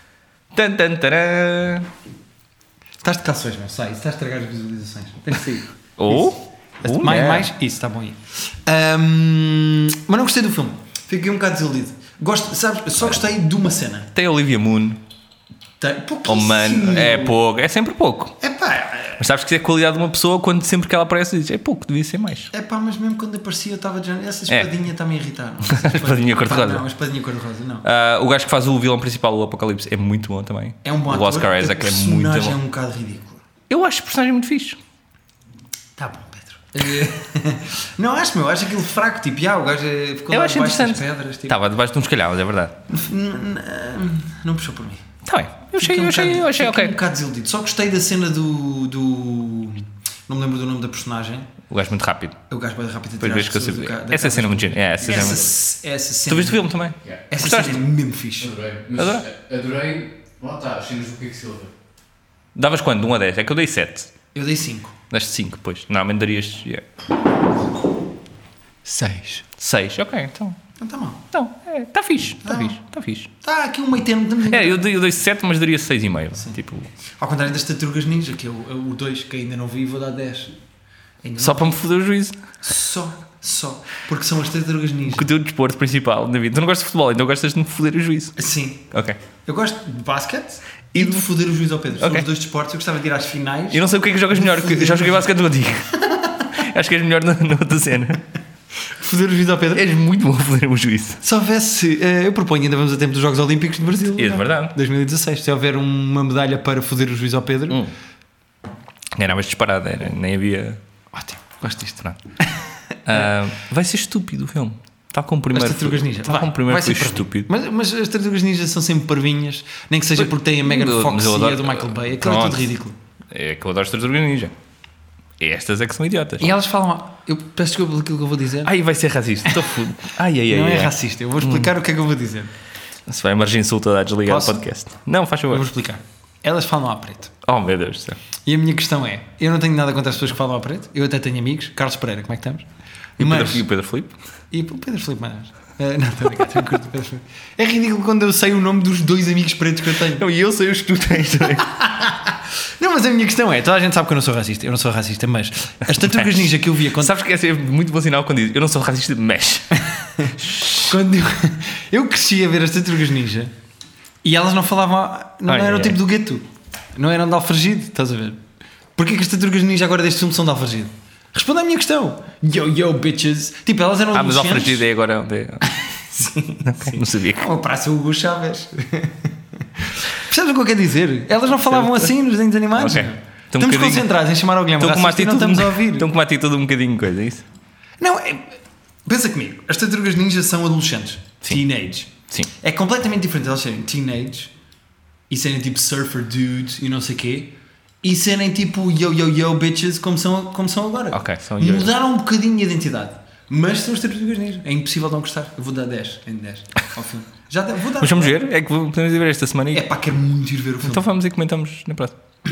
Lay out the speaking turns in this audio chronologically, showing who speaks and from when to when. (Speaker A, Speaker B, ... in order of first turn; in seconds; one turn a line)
Speaker A: 0.5-1.9
Speaker B: 3.0-14.1
Speaker A: 6.0-7.5
Speaker A: 14.1-15.0
Speaker B: 15.8-17.4
Speaker A: 16.2-18.4
Speaker B: 18.4-19.2
Speaker A: 19.2-22.5
Speaker B: 22.5-27.9
Speaker A: 25.6-26.8
Speaker A: 27.8-32.6
Speaker B: 30.8-33.4
Speaker A: 33.7-34.8
Speaker B: 36.0-41.6
Speaker A: 40.3-42.8
Speaker B: 42.9-45.0
Speaker A: 45.2-46.9
Speaker B: 45.8-51.5
Speaker A: 51.7-52.4
Speaker B: 52.5-56.6
Speaker A: 53.2-55.5
Speaker C: 55.0-55.5
Speaker A: 56.3-57.8
Speaker B: 57.3-58.5
Speaker C: 58.4-61.7
Speaker A: 59.0-59.3
Speaker A: 62.5-64.1
Speaker B: 64.3-64.9
Speaker A: 65.1-66.8
Speaker B: 68.8-69.4
Speaker A: 69.6-70.6
Speaker B: 70.8-71.2
Speaker A: 71.3-73.3
Speaker B: 72.4-72.8
Speaker B: 73.4-74.9
Speaker A: 74.5-76.9
Speaker B: 77.2-80.5
Speaker B: 81.2-81.8
Speaker A: 81.4-82.4
Speaker B: 82.6-85.3
Speaker A: 85.1-88.3
Speaker B: 88.3-88.9
Speaker A: 88.9-89.2
Speaker B: 89.4-95.2
Speaker A: 90.9-91.2
Speaker A: 92.0-92.3
Speaker A: 93.7-96.0
Speaker B: 96.0-96.5
Speaker A: 96.5-98.2
Speaker B: 98.9-99.9
Speaker A: 99.7-101.2
Speaker B: 101.2-107.8
Speaker A: 104.2-104.8
Speaker A: 109.1-110.8
Speaker B: 111.1-113.3
Speaker A: 113.0-117.5
Speaker B: 115.5-123.0
Speaker A: 120.2-122.7
Speaker A: 123.3-124.5
Speaker A: 125.4-126.5
Speaker B: 126.4-128.7
Speaker A: 128.6-131.7
Speaker B: 130.5-132.5
Speaker A: 133.1-135.7
Speaker B: 134.2-134.6
Speaker B: 135.5-137.3
Speaker A: 137.4-138.2
Speaker B: 138.4-142.7
Speaker B: 143.2-143.7
Speaker A: 143.2-144.1
Speaker B: 144.5-150.2
Speaker A: 150.1-151.7
Speaker B: 151.5-157.1
Speaker A: 156.0-160.9
Speaker B: 160.2-163.5
Speaker B: 164.2-166.4
Speaker A: 165.5-166.0
Speaker B: 166.9-168.4
Speaker B: 169.0-174.8
Speaker A: 174.1-175.7
Speaker B: 175.7-186.1
Speaker A: 176.4-177.5
Speaker A: 181.7-182.1
Speaker A: 182.7-184.1
Speaker A: 184.8-187.4
Speaker B: 188.0-194.5
Speaker B: 195.3-208.4
Speaker A: 201.1-201.9
Speaker A: 208.0-209.8
Speaker B: 209.7-211.0
Speaker A: 210.8-212.2